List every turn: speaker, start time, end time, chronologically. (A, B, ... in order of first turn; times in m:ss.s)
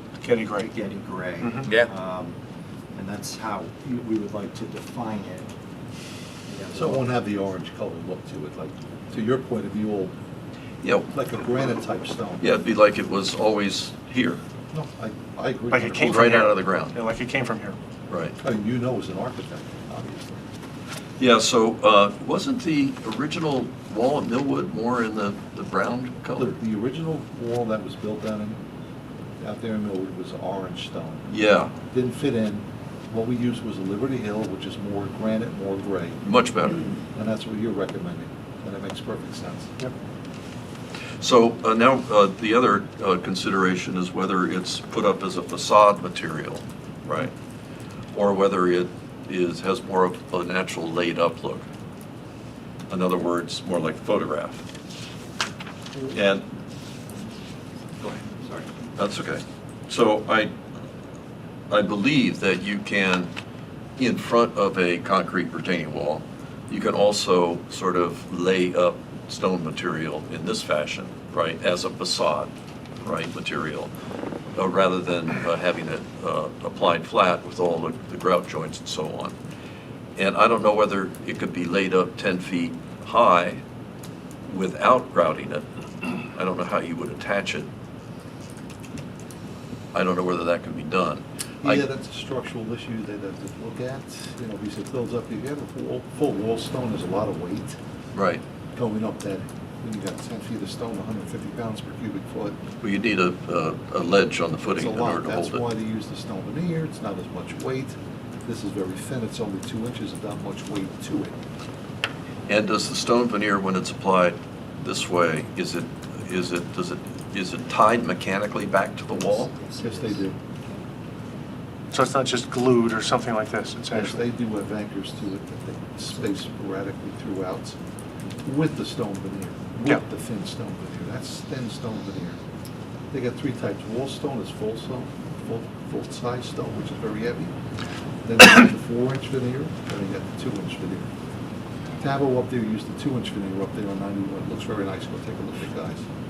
0:00.2-0:00.7 A
0:00.7-0:02.4 B
0:01.4-0:01.7 A
0:02.9-0:05.5 B
0:06.5-0:07.1 B
0:06.7-0:10.1 C
0:10.8-0:11.1 D
0:11.1-0:12.6 C
0:12.4-0:14.4 D
0:14.7-0:16.3 C
0:15.7-0:17.8 A
0:16.0-0:17.0 D
0:18.1-0:18.4 D
0:18.4-0:20.4 C
0:21.2-0:26.6 D
0:26.4-0:28.6 C
0:29.4-0:31.2 C
0:31.3-0:31.7 D
0:31.9-0:36.2 C
0:36.2-0:36.9 D
0:37.1-0:39.7 C
0:41.2-0:47.3 D
0:48.1-0:51.7 D
0:52.9-0:54.6 D
0:56.1-0:56.4 D
0:58.0-0:58.7 B
0:59.0-1:00.5 D
1:01.7-1:03.3 D
1:04.0-1:12.5 D
1:13.0-1:13.9 D
1:14.5-1:19.4 D
1:20.2-1:23.6 D
1:24.4-1:25.6 D
1:26.3-1:27.7 D
1:29.9-1:31.8 D
1:31.6-1:37.8 C
1:38.1-1:38.4 D
1:38.7-1:42.6 C
1:42.8-1:45.6 D
1:44.7-1:51.4 C
1:52.5-1:59.5 D
1:59.1-2:00.8 B
1:59.8-2:00.4 C
2:01.9-2:04.2 A
2:03.9-2:07.8 C
2:08.4-2:12.4 C
2:13.1-2:17.5 C
2:18.2-2:21.1 C
2:22.0-2:26.0 C